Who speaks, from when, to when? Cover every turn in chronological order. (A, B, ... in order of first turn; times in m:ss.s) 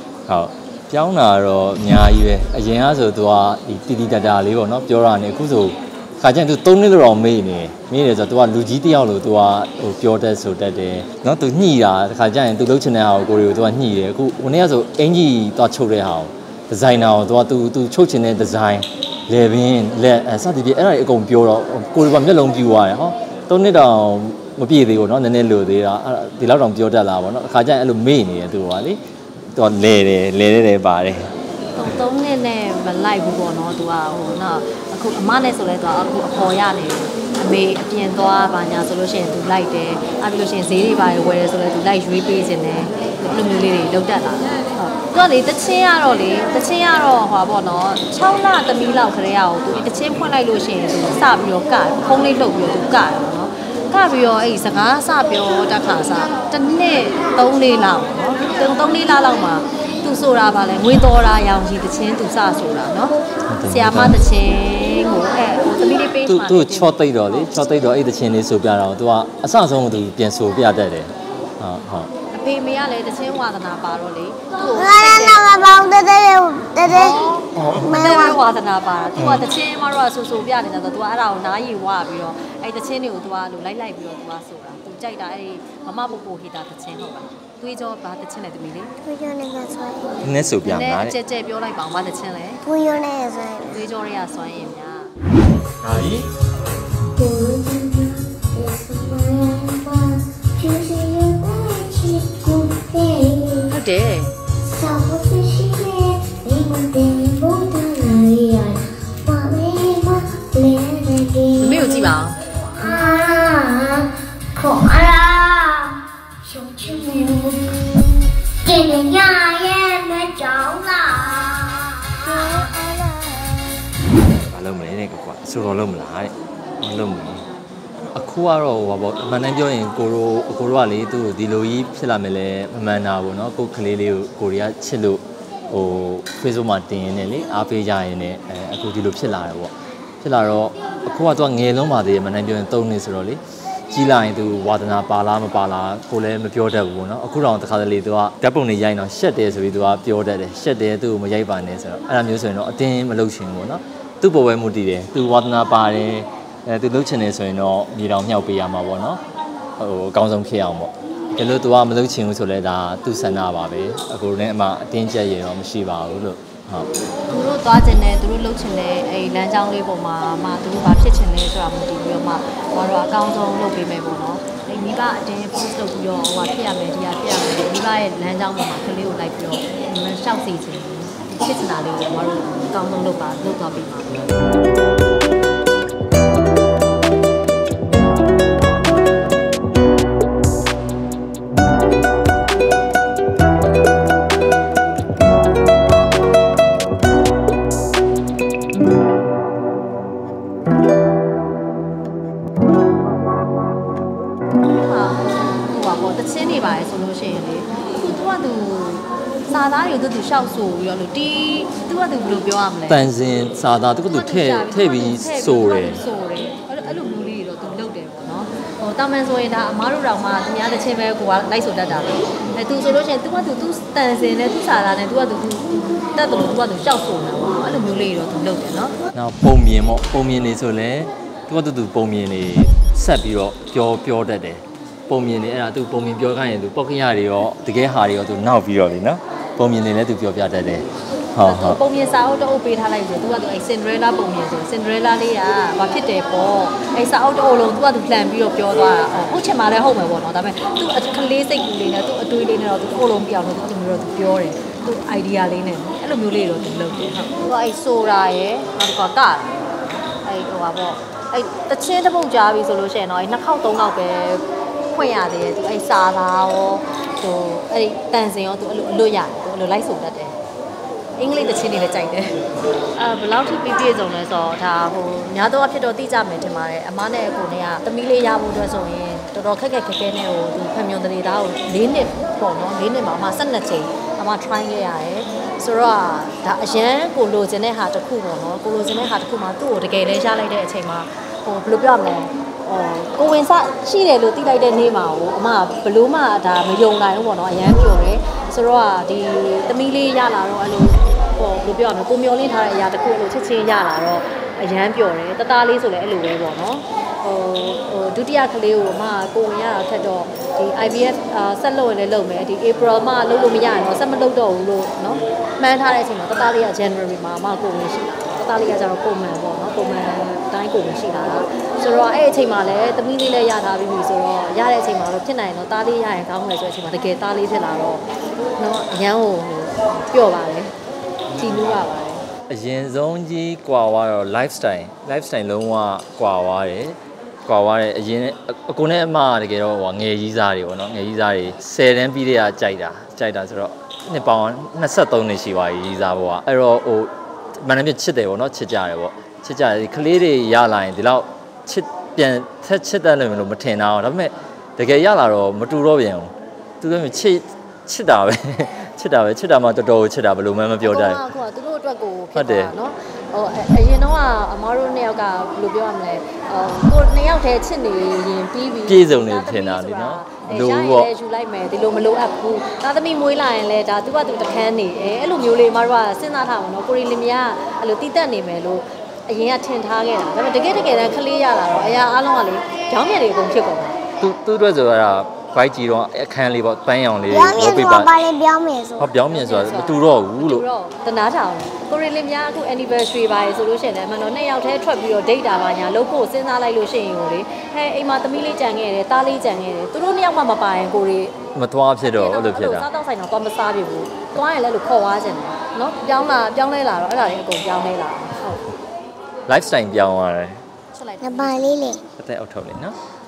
0:00.3-0:29.0 A
0:29.6-0:31.3 A
0:31.8-1:03.2 B
1:03.5-1:04.2 A
1:03.7-1:06.9 B
1:06.3-1:12.1 A
1:12.3-1:15.8 B
1:14.6-1:18.4 C
1:16.9-1:28.9 B
1:29.0-1:30.4 C
1:30.2-1:31.2 A
1:30.7-1:32.6 B
1:32.6-1:33.8 C
1:33.7-1:35.2 B
1:35.9-1:36.2 A
1:37.2-1:43.7 C
1:43.7-1:44.3 B
1:44.6-1:58.1 C
1:51.6-1:52.4 B
1:58.6-2:03.5 C
2:04.3-2:07.4 A
2:08.1-2:39.2 A
2:39.8-2:46.9 A
2:47.3-3:04.2 B
3:24.7-3:33.0 B
3:32.9-3:36.0 A
3:34.1-3:49.0 B
3:49.2-4:01.8 A
4:01.4-4:30.4 B
4:31.2-4:32.4 B
4:33.0-5:28.0 B
5:28.6-5:30.7 B
5:31.4-5:32.2 B
5:32.5-6:01.2 A
6:00.8-6:24.0 B
6:02.4-6:02.7 A
6:08.9-6:11.1 A
6:24.2-6:28.2 A
6:27.3-6:29.1 C
6:29.0-6:30.6 A
6:29.3-6:41.4 B
6:41.6-6:42.9 A
6:42.0-6:48.6 B
6:49.5-6:50.6 A
6:51.0-6:51.9 B
6:51.2-6:52.0 C
6:52.2-6:53.0 A